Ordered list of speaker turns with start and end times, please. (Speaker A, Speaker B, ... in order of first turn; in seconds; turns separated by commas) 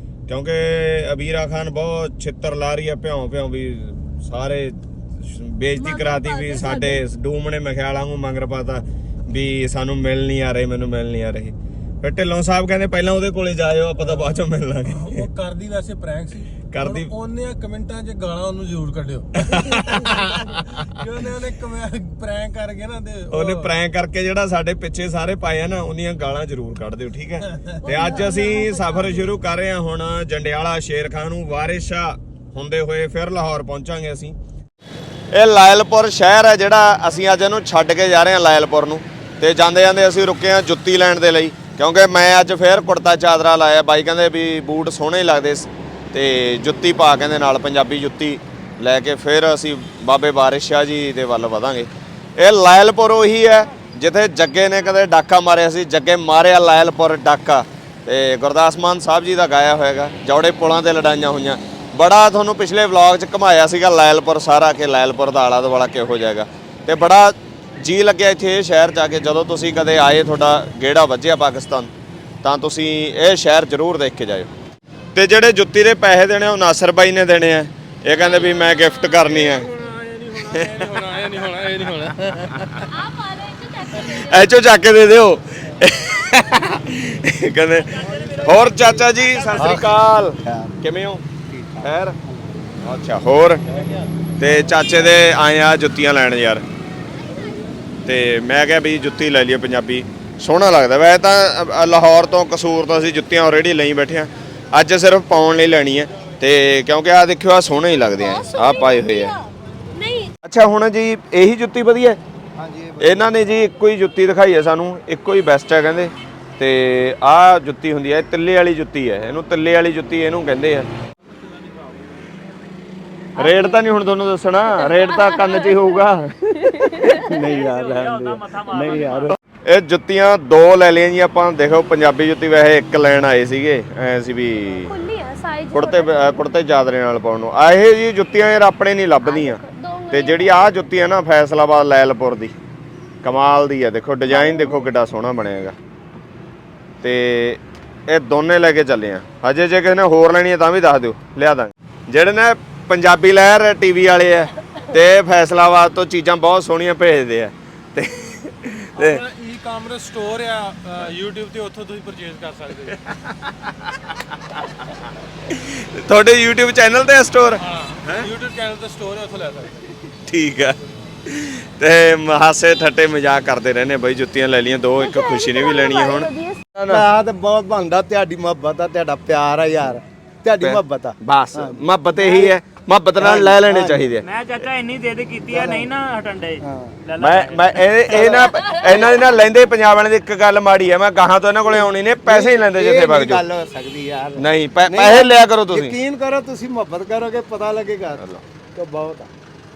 Speaker A: 0.3-15.3, Speaker B: 5.8-7.0, Speaker C: 14.0-14.3, Speaker C: 14.8-23.7, Speaker A: 16.7-17.1, Speaker A: 19.4-21.0, Speaker A: 23.3-34.4, Speaker C: 27.5-27.9, Speaker B: 27.8-29.3, Speaker A: 35.3-71.9, Speaker A: 72.4-74.5, Speaker A: 75.2-79.7, Speaker B: 78.1-79.1, Speaker C: 79.2-82.8, Speaker A: 80.5-80.8, Speaker B: 82.8-84.6, Speaker A: 84.2-91.2, Speaker D: 87.8-89.9, Speaker E: 89.5-89.8, Speaker E: 90.4-90.7, Speaker A: 91.8-92.2, Speaker A: 92.8-93.6, Speaker A: 94.4-96.7, Speaker A: 98.1-109.3, Speaker B: 108.2-110.3, Speaker A: 110.4-112.2, Speaker E: 112.6-113.4, Speaker A: 113.0-120.9, Speaker A: 123.4-127.0, Speaker B: 123.4-123.8, Speaker B: 124.7-125.9, Speaker B: 126.6-127.2, Speaker E: 126.9-129.4, Speaker D: 127.2-129.3, Speaker A: 129.6-135.0, Speaker B: 134.8-136.4, Speaker A: 135.7-142.6, Speaker B: 139.2-140.9, Speaker A: 143.2-145.8, Speaker B: 144.3-144.8, Speaker A: 147.0-159.2, Speaker C: 159.0-163.0, Speaker A: 162.9-163.9, Speaker A: 165.5-168.3, Speaker C: 167.6-169.9, Speaker A: 170.2-177.1, Speaker B: 175.0-176.6, Speaker E: 176.9-182.6, Speaker A: 180.6-184.3, Speaker E: 183.2-184.1, Speaker D: 184.2-187.9, Speaker E: 185.5-185.9, Speaker E: 186.6-186.9, Speaker A: 187.2-193.4, Speaker E: 188.1-189.2, Speaker E: 191.8-198.2, Speaker A: 194.4-196.0, Speaker A: 198.2-198.4, Speaker E: 198.8-199.3